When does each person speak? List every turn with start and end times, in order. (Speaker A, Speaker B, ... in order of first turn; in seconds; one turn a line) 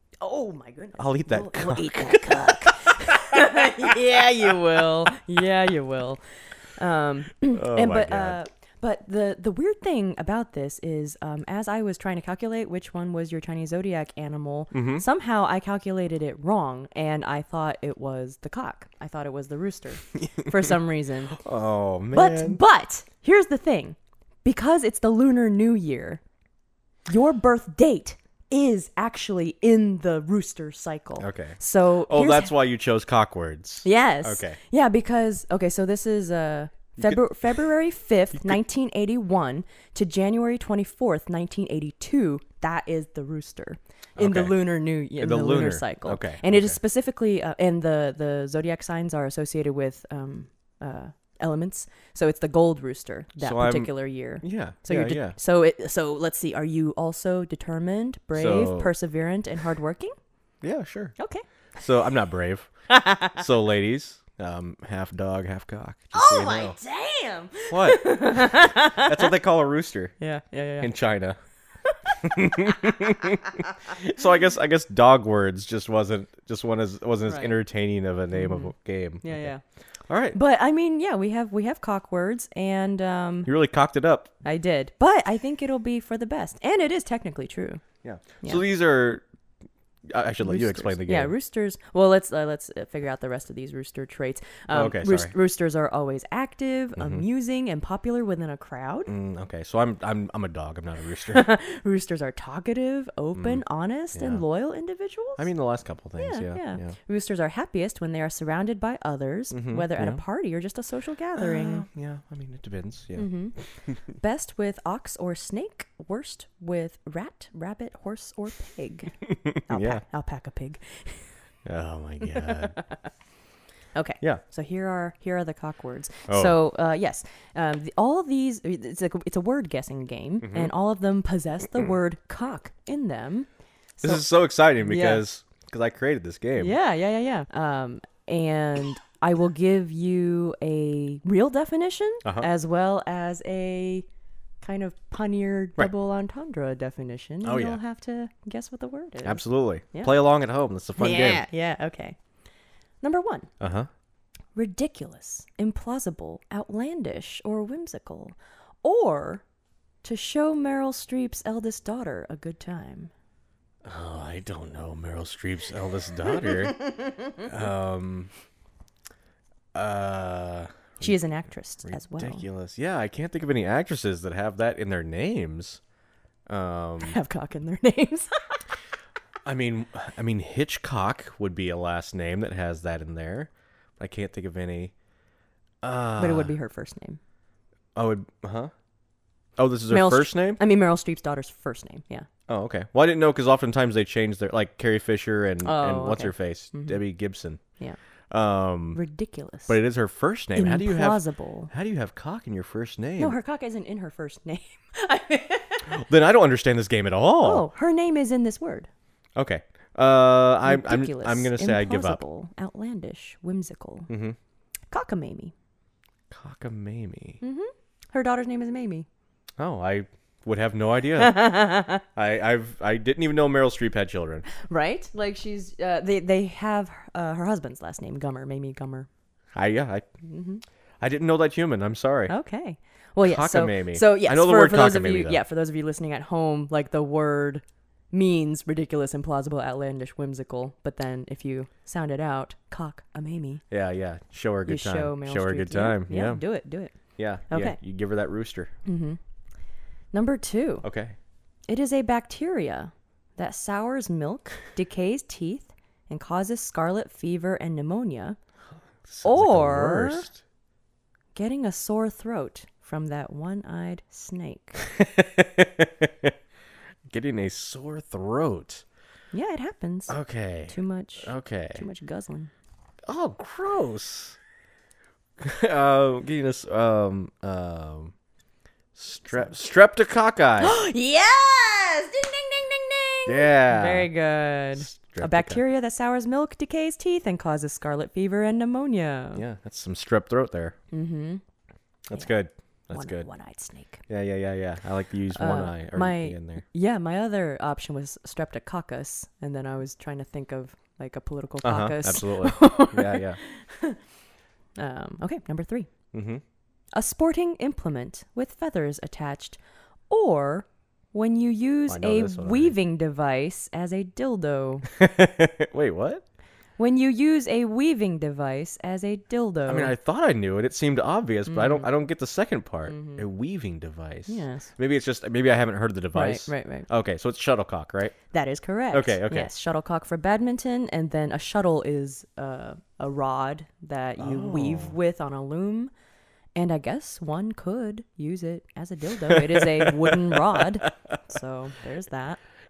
Speaker A: 0.2-6.2
Speaker B: 1.0-4.6
Speaker A: 6.8-21.4
Speaker B: 7.5-8.4
Speaker B: 14.7-15.1
Speaker B: 20.2-20.7
Speaker B: 21.3-22.6
Speaker A: 22.1-26.2
Speaker A: 27.1-32.5
Speaker B: 31.2-34.6
Speaker A: 33.8-60.1
Speaker B: 44.2-46.8
Speaker B: 53.4-55.4
Speaker B: 58.3-58.9
Speaker B: 60.6-61.1
Speaker A: 61.2-61.4
Speaker B: 61.8-62.7
Speaker A: 62.9-63.4
Speaker B: 63.3-66.8
Speaker A: 66.1-69.3
Speaker B: 67.7-70.1
Speaker A: 70.2-70.9
Speaker B: 70.8-71.4
Speaker B: 72.2-79.5
Speaker A: 72.5-73.7
Speaker A: 77.3-77.6
Speaker A: 78.3-79.6
Speaker B: 80.1-80.4
Speaker A: 80.3-83.5
Speaker B: 83.5-84.3
Speaker A: 84.4-87.8
Speaker B: 88.0-89.2
Speaker B: 90.1-91.3
Speaker A: 90.4-99.1
Speaker B: 94.7-95.3
Speaker B: 97.0-97.2
Speaker B: 99.1-101.5
Speaker A: 101.3-105.5
Speaker B: 103.4-103.6
Speaker B: 104.1-104.4
Speaker B: 105.4-106.9
Speaker A: 106.2-111.8
Speaker B: 109.5-110.2
Speaker B: 111.4-113.3
Speaker A: 113.2-113.6
Speaker A: 114.1-121.3
Speaker B: 119.3-120.0
Speaker B: 121.7-122.8
Speaker A: 122.3-123.0
Speaker A: 124.0-134.3
Speaker B: 126.3-126.6
Speaker B: 130.4-130.7
Speaker B: 134.0-136.8
Speaker A: 134.8-135.2
Speaker A: 136.6-144.1
Speaker A: 144.6-150.1
Speaker B: 147.4-147.8
Speaker B: 149.2-151.5
Speaker A: 151.0-152.2
Speaker A: 153.0-153.5
Speaker B: 153.6-153.9
Speaker A: 154.6-159.4
Speaker A: 160.0-163.1
Speaker B: 163.8-168.3
Speaker B: 169.7-171.2
Speaker A: 171.0-172.4
Speaker B: 171.8-175.8
Speaker B: 176.5-177.2
Speaker A: 177.0-178.6
Speaker B: 179.4-184.9
Speaker B: 185.8-186.5
Speaker A: 186.2-187.2
Speaker B: 187.9-188.7
Speaker B: 189.6-190.6
Speaker A: 189.9-192.3
Speaker B: 192.5-197.6
Speaker A: 195.6-197.0
Speaker B: 198.3-199.0
Speaker A: 198.9-199.8
Speaker B: 199.7-203.4
Speaker A: 200.6-201.7
Speaker A: 203.2-206.0
Speaker B: 205.9-207.7
Speaker A: 207.4-208.9
Speaker B: 209.4-212.2
Speaker A: 210.7-214.1
Speaker B: 214.1-214.4
Speaker A: 214.9-215.5
Speaker B: 216.3-217.4
Speaker A: 217.4-219.1
Speaker B: 219.6-224.5
Speaker A: 221.2-222.0
Speaker A: 224.5-229.1
Speaker B: 229.5-230.1
Speaker A: 230.2-230.6
Speaker B: 231.0-232.3
Speaker A: 232.3-243.6
Speaker B: 233.2-235.4
Speaker B: 243.7-246.4
Speaker A: 244.7-246.9
Speaker B: 247.2-248.7
Speaker A: 247.5-247.8
Speaker A: 248.9-249.2
Speaker A: 250.1-250.9
Speaker B: 250.8-251.2
Speaker A: 251.7-258.4
Speaker B: 259.1-260.4
Speaker A: 259.2-260.3
Speaker A: 261.4-264.8
Speaker B: 264.8-266.4
Speaker B: 267.1-268.8
Speaker A: 269.3-270.2
Speaker B: 270.1-271.8
Speaker A: 270.7-272.5
Speaker B: 273.1-274.4
Speaker B: 275.4-278.1
Speaker B: 278.9-280.8
Speaker A: 280.6-289.4
Speaker B: 283.3-284.1
Speaker B: 284.8-285.6
Speaker B: 289.4-290.8
Speaker A: 290.9-291.4
Speaker B: 292.1-293.3
Speaker A: 292.9-294.0
Speaker B: 294.1-296.6
Speaker A: 295.3-304.0
Speaker B: 301.6-303.4
Speaker A: 304.8-305.9
Speaker B: 306.1-306.4
Speaker A: 306.9-309.6
Speaker A: 310.1-314.9
Speaker B: 311.9-312.8
Speaker B: 314.9-316.2
Speaker A: 316.8-319.9
Speaker B: 319.7-328.1
Speaker A: 321.5-321.9
Speaker A: 322.9-323.3
Speaker A: 324.3-324.7
Speaker A: 326.1-326.9
Speaker A: 328.3-335.9
Speaker B: 328.9-329.5
Speaker B: 334.2-335.0
Speaker A: 336.6-342.4
Speaker B: 339.2-341.2